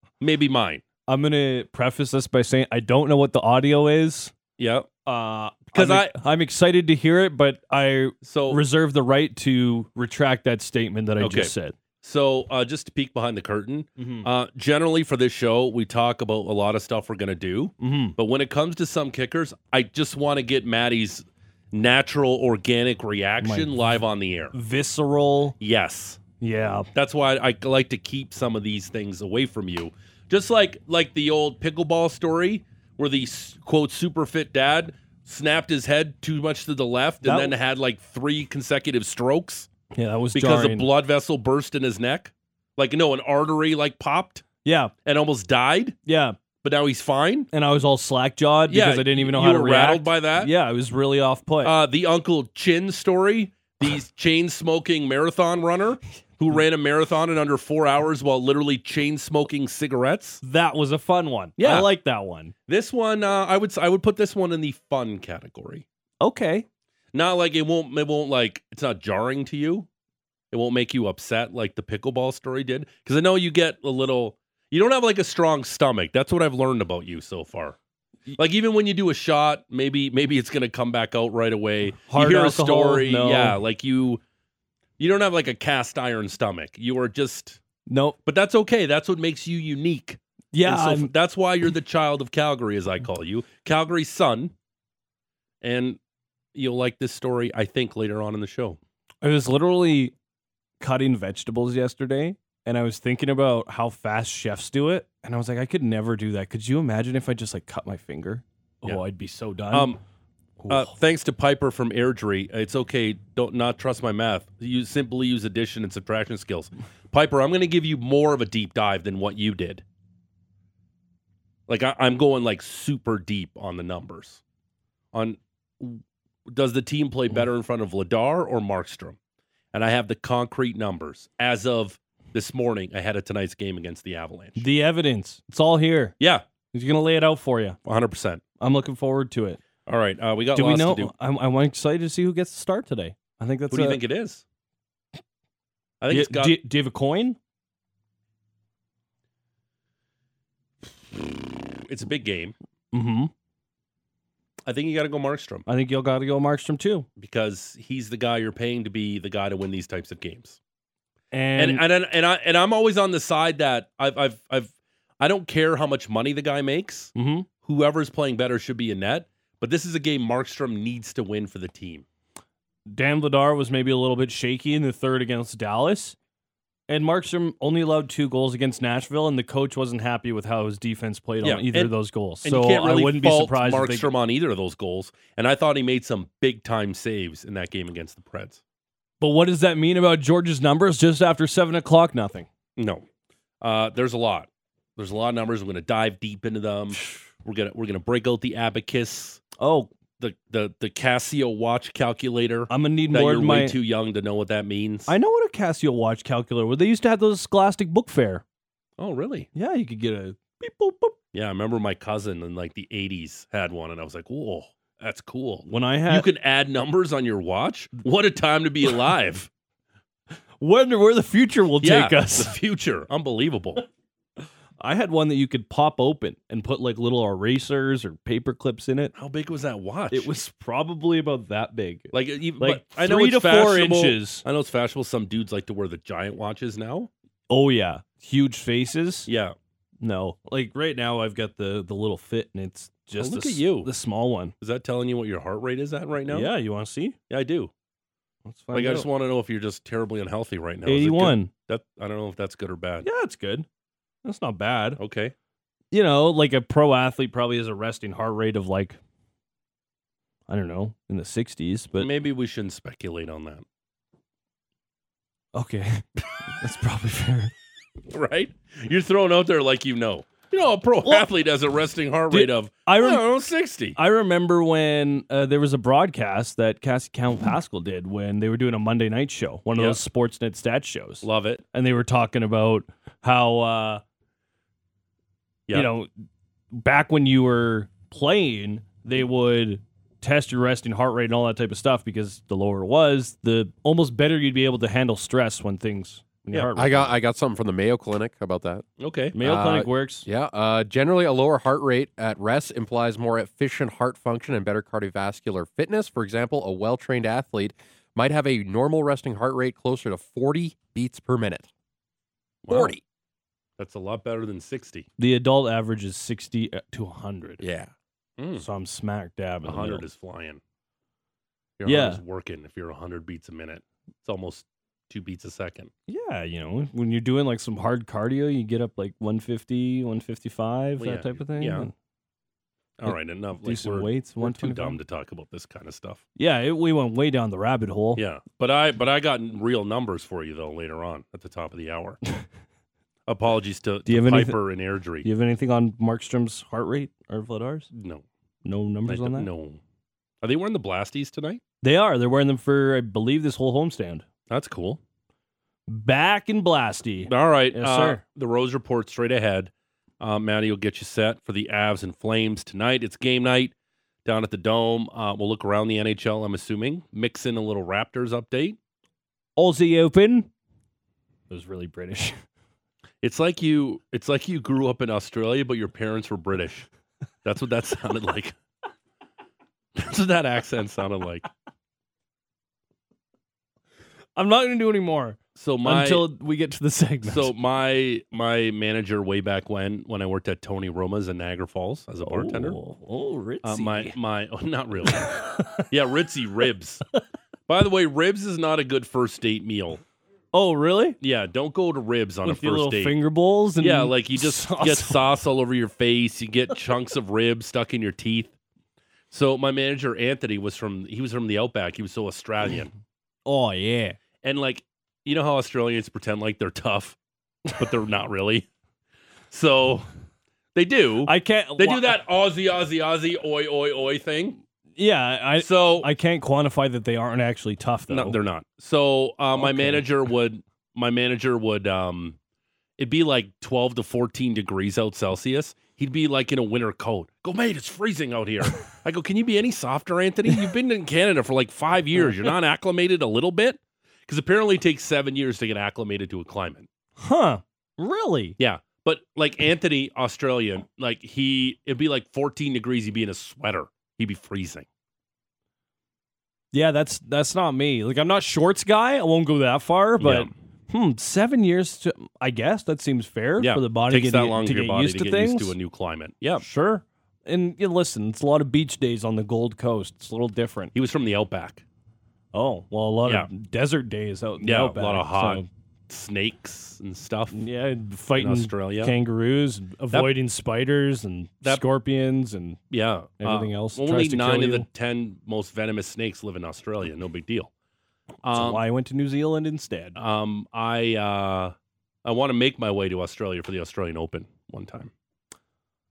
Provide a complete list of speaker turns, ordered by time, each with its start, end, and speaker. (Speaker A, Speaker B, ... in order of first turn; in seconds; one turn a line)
Speaker A: 0.2-0.8
Speaker B: 1.1-4.3
Speaker A: 4.6-4.9
Speaker B: 5.1-11.8
Speaker A: 5.7-6.2
Speaker A: 8.2-8.6
Speaker A: 11.2-24.5
Speaker B: 14.0-14.3
Speaker B: 17.8-18.2
Speaker B: 23.4-23.7
Speaker B: 24.5-25.6
Speaker A: 25.6-26.2
Speaker B: 26.4-26.9
Speaker A: 26.9-39.7
Speaker B: 37.2-37.5
Speaker B: 39.9-40.9
Speaker A: 40.3-44.5
Speaker B: 44.6-44.9
Speaker A: 45.0-46.0
Speaker B: 46.1-46.4
Speaker A: 46.6-47.5
Speaker B: 47.5-51.7
Speaker A: 48.7-50.5
Speaker A: 51.6-60.4
Speaker B: 60.4-62.5
Speaker A: 61.6-61.9
Speaker A: 62.7-65.8
Speaker B: 66.2-66.7
Speaker A: 67.1-69.9
Speaker A: 70.5-77.8
Speaker A: 78.4-84.2
Speaker B: 82.1-83.6
Speaker A: 85.0-87.6
Speaker B: 87.9-88.2
Speaker A: 88.3-94.5
Speaker B: 90.5-91.1
Speaker A: 95.6-96.0
Speaker A: 96.5-98.8
Speaker B: 99.2-100.1
Speaker B: 100.8-110.0
Speaker A: 109.7-110.0
Speaker B: 110.6-110.9
Speaker A: 110.7-119.8
Speaker A: 121.7-124.4
Speaker A: 125.1-129.2
Speaker A: 129.7-134.7
Speaker B: 134.6-136.2
Speaker B: 136.7-137.8
Speaker A: 137.9-138.4
Speaker B: 138.6-139.6
Speaker A: 139.9-141.1
Speaker B: 140.5-144.0
Speaker A: 143.7-144.4
Speaker A: 146.0-146.6
Speaker B: 146.1-147.4
Speaker A: 151.8-152.6
Speaker B: 152.9-153.3
Speaker A: 154.7-155.7
Speaker B: 155.7-157.1
Speaker A: 157.2-160.6
Speaker B: 161.3-161.8
Speaker A: 161.6-172.1
Speaker B: 167.2-167.5
Speaker B: 172.9-176.2
Speaker B: 176.9-184.1
Speaker A: 181.4-188.6
Speaker B: 189.2-192.5
Speaker A: 192.8-193.1
Speaker A: 193.6-199.4
Speaker B: 199.6-199.9
Speaker A: 200.2-205.1
Speaker B: 202.7-203.8
Speaker B: 205.1-208.4
Speaker A: 209.0-209.5
Speaker B: 209.6-211.2
Speaker A: 211.3-219.5
Speaker B: 215.7-216.3
Speaker B: 220.6-222.5
Speaker A: 221.8-223.9
Speaker B: 224.8-229.1
Speaker A: 229.2-230.3
Speaker B: 230.1-234.4
Speaker A: 232.1-237.1
Speaker B: 237.5-239.3
Speaker A: 239.3-239.6
Speaker B: 240.0-244.5
Speaker A: 243.2-243.9
Speaker A: 244.6-246.5
Speaker B: 246.3-247.2
Speaker A: 247.3-247.7
Speaker B: 248.5-249.1
Speaker A: 248.7-253.1
Speaker B: 250.9-251.5
Speaker B: 253.0-253.7
Speaker B: 254.2-255.0
Speaker A: 255.0-255.3
Speaker B: 255.9-259.0
Speaker B: 260.5-262.1
Speaker A: 262.0-263.6
Speaker B: 265.5-267.5
Speaker A: 268.1-274.0
Speaker B: 272.3-273.2
Speaker B: 274.0-284.0
Speaker A: 281.2-281.6
Speaker B: 285.7-286.1
Speaker B: 286.7-297.1
Speaker C: 296.8-298.9
Speaker A: 299.0-299.9
Speaker B: 299.3-300.3
Speaker C: 299.4-311.7
Speaker A: 312.6-313.0
Speaker C: 312.7-313.0
Speaker A: 313.8-315.1
Speaker B: 315.2-317.6
Speaker A: 317.6-318.6
Speaker B: 318.6-320.1
Speaker A: 319.6-320.6
Speaker A: 321.8-325.9
Speaker B: 321.9-322.2
Speaker B: 326.1-331.9
Speaker A: 331.0-331.9
Speaker A: 333.0-336.2
Speaker B: 333.1-335.0
Speaker B: 336.4-338.2
Speaker A: 338.2-342.2
Speaker A: 343.3-345.3
Speaker B: 344.1-344.6
Speaker B: 345.2-347.9
Speaker A: 347.9-348.2
Speaker B: 348.6-349.5
Speaker A: 349.1-349.8
Speaker A: 350.4-351.6
Speaker B: 351.8-354.2
Speaker A: 354.5-355.0
Speaker B: 355.9-358.2
Speaker A: 357.3-363.7
Speaker A: 364.2-368.8
Speaker B: 369.6-370.5
Speaker B: 371.5-372.4
Speaker A: 373.2-376.9
Speaker A: 377.4-378.6
Speaker A: 380.0-381.5
Speaker B: 384.4-387.5
Speaker A: 385.6-386.3
Speaker A: 387.3-392.8
Speaker B: 392.2-394.1
Speaker A: 393.6-397.0
Speaker B: 395.2-395.8
Speaker A: 397.7-400.0
Speaker B: 400.5-401.2
Speaker A: 401.2-403.2
Speaker B: 402.4-405.2
Speaker A: 403.8-408.5
Speaker A: 409.3-412.9
Speaker B: 413.5-414.2
Speaker A: 414.4-417.2
Speaker A: 417.7-418.7
Speaker A: 419.5-420.1
Speaker A: 420.8-424.6
Speaker B: 421.2-422.2
Speaker B: 425.0-428.4
Speaker A: 425.6-426.1
Speaker A: 428.1-432.4
Speaker B: 429.6-430.0
Speaker A: 433.0-446.9
Speaker B: 442.2-442.5
Speaker B: 447.2-448.6
Speaker A: 448.6-454.9
Speaker B: 456.7-465.8
Speaker A: 460.2-460.5
Speaker A: 463.6-466.6
Speaker B: 466.6-470.9
Speaker A: 470.9-471.8
Speaker B: 472.5-475.7
Speaker A: 474.6-477.6
Speaker B: 477.5-482.8
Speaker A: 478.4-479.1
Speaker A: 482.9-487.7
Speaker B: 483.4-484.9
Speaker A: 488.4-488.8
Speaker B: 488.5-490.2
Speaker A: 490.2-491.7
Speaker A: 492.2-495.1